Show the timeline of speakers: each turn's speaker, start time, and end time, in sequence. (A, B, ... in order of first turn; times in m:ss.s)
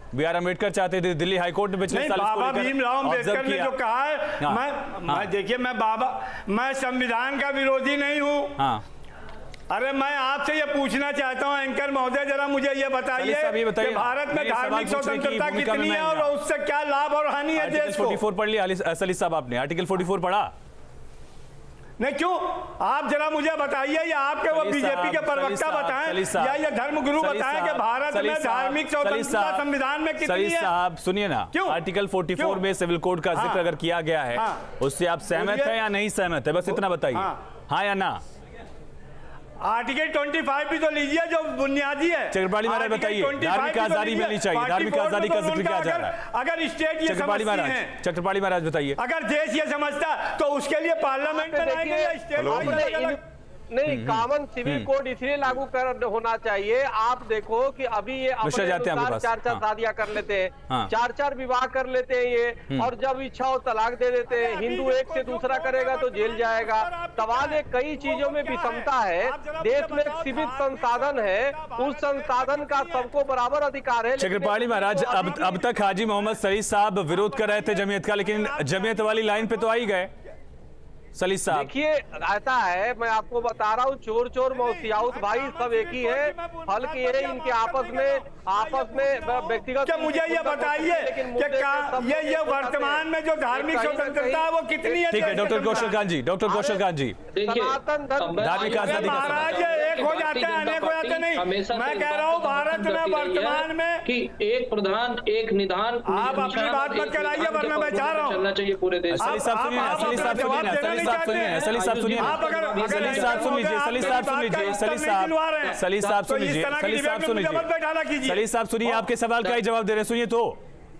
0:00.1-0:03.7 A
0:01.9-0:08.6 B
0:04.4-0:05.3 A
0:08.6-0:08.8 A
0:09.7-0:18.2 B
0:13.2-0:16.3 A
0:17.6-0:20.5 A
0:22.0-0:30.7 B
0:24.5-0:26.6 A
0:27.2-0:29.6 A
0:30.2-0:38.2 A
0:31.5-0:31.8 B
0:32.4-0:32.6 B
0:33.3-0:33.7 B
0:34.3-0:34.6 B
0:35.3-0:35.8 B
0:36.7-0:37.4 B
0:39.6-0:47.9 B
0:42.3-0:46.2 A
0:47.0-0:49.0 A
0:49.0-0:53.2 B
0:51.3-0:53.2 C
0:52.5-0:52.7 A
0:53.7-1:15.4 C
0:53.8-0:54.9 A
0:58.4-0:59.6 A
1:04.3-1:13.1 B
1:14.2-1:20.1 A
1:14.7-1:16.4 B
1:17.1-1:19.9 B
1:21.2-1:21.7 A
1:21.5-1:35.9 C
1:24.5-1:36.0 B
1:35.1-1:37.2 A
1:36.4-1:36.8 C
1:37.3-1:54.7 D
1:37.4-1:39.0 C
1:38.4-1:39.7 A
1:38.6-1:44.0 B
1:46.1-1:48.4 B
1:49.1-1:57.7 A
1:49.2-1:59.0 B
1:58.2-2:00.6 A